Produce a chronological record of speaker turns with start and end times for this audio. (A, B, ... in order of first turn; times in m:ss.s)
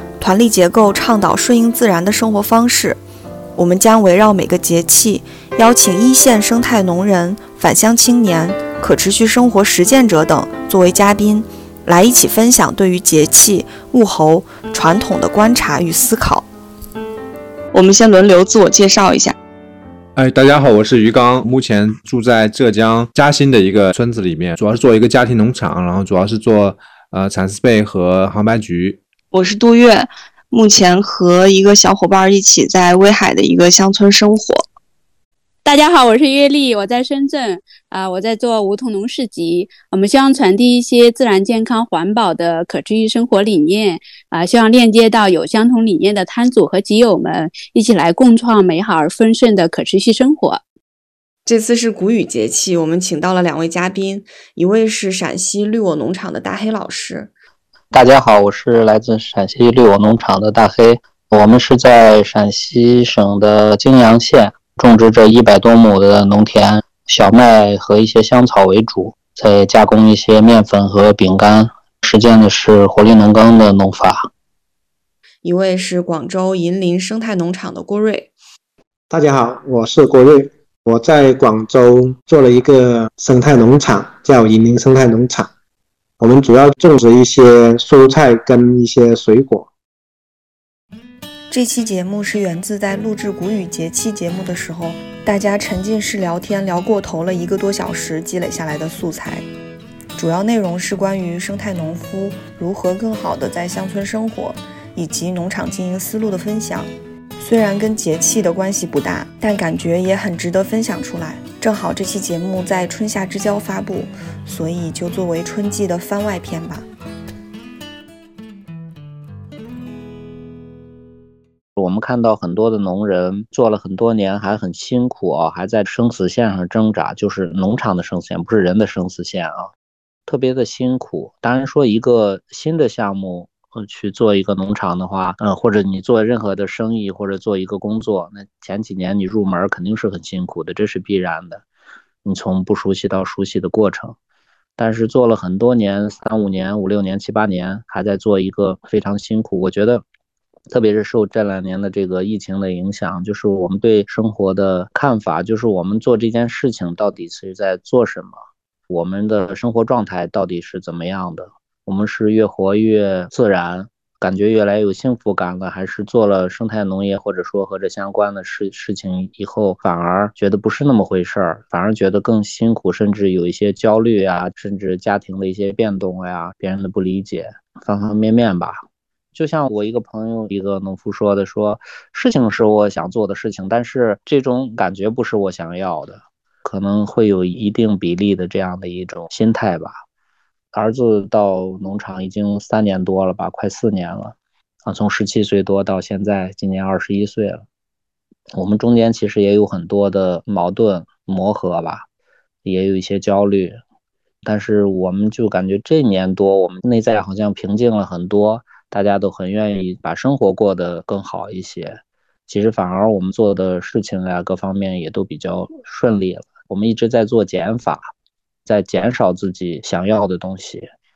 0:00.2-0:03.0 A
0:03.6-0:16.4 A
0:17.7-0:19.3 B
0:20.2-0:29.0 C
0:29.3-0:34.6 B
0:35.6-0:50.6 D
0:51.4-0:57.3 A
0:57.9-1:14.3 E
1:15.4-1:18.3 A
1:19.1-1:25.5 F
1:26.2-1:29.7 F
1:31.5-1:39.4 A
1:40.2-1:56.8 A
2:01.8-2:09.7 E
2:10.3-2:21.6 E
2:22.2-2:24.2 E
2:24.8-2:30.0 E
2:30.7-2:38.4 E
2:38.9-3:10.0 E
3:10.7-3:17.6 E
3:18.5-3:22.0 E
3:22.6-3:23.8 E
3:24.4-3:38.1 E
3:38.6-3:40.9 E